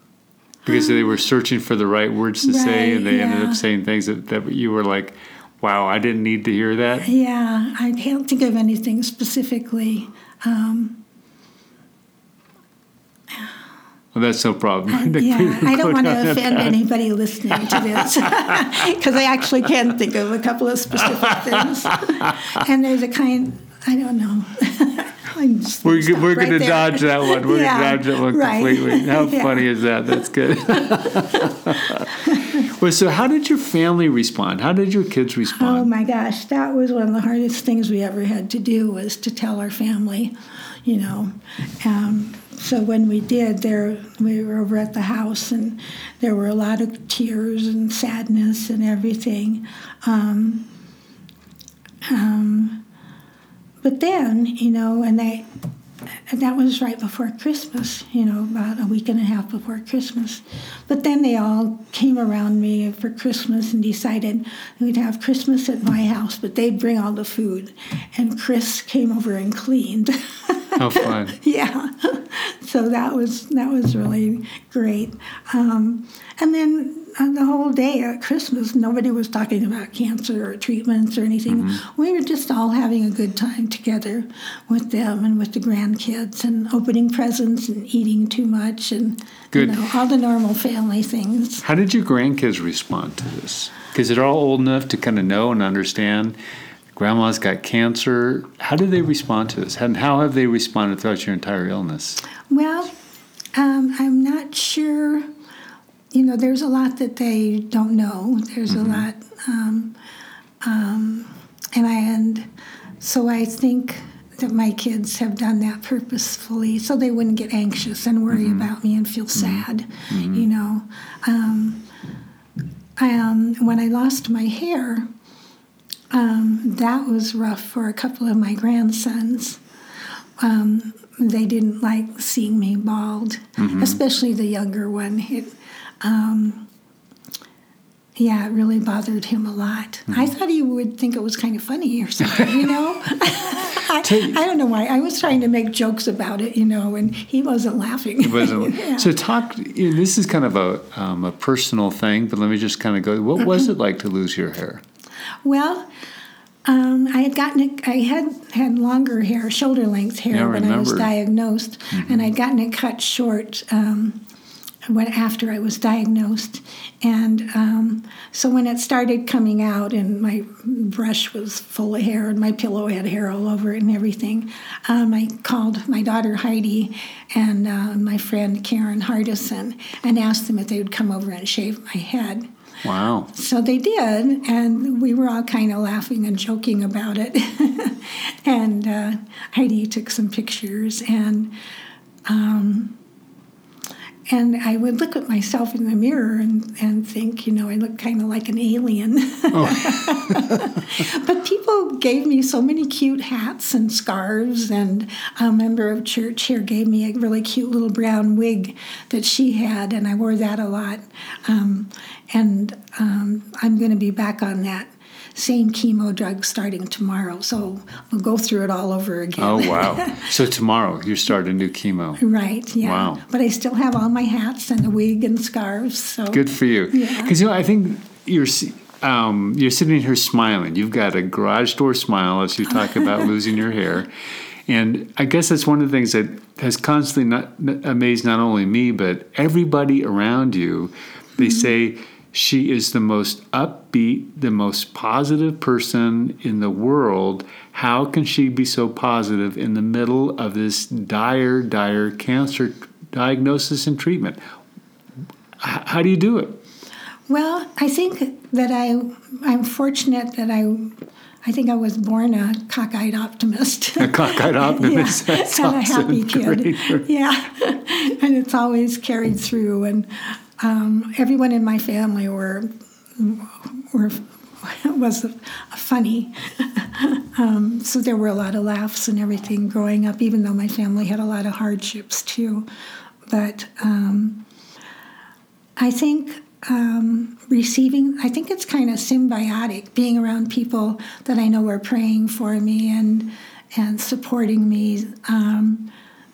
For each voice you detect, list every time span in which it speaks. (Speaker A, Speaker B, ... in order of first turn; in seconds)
Speaker A: 0.7-7.1, 14.1-16.7, 17.6-18.8, 21.3-22.4, 25.8-35.9, 70.8-71.4, 81.5-81.8, 89.5-89.8, 91.6-96.4, 97.0-102.2, 108.7-109.1, 118.3-118.7, 119.4-120.5, 133.6-134.0, 143.9-144.4, 148.2-154.8, 160.3-161.1, 161.9-162.3, 182.8-183.3, 199.5-200.7, 219.4-222.2, 222.8-223.2, 226.3-234.1, 234.7-254.4, 255.6-256.6, 264.0-267.1
Speaker B: 2.4-3.6, 7.0-11.0, 14.9-29.7, 30.8-32.6, 35.5-50.7, 52.0-52.8, 53.8-55.5, 56.1-91.7, 102.5-102.9, 103.5-105.3, 106.1-110.0, 110.6-112.5, 113.0-121.9, 123.0-125.1, 126.1-129.6, 130.4-136.7, 138.2-149.1, 155.4-155.9, 156.7-164.2, 164.9-182.5, 183.3-191.5, 192.3-193.0, 194.3-220.3, 222.2-227.3, 257.3-282.7, 283.3-284.4, 285.8-295.9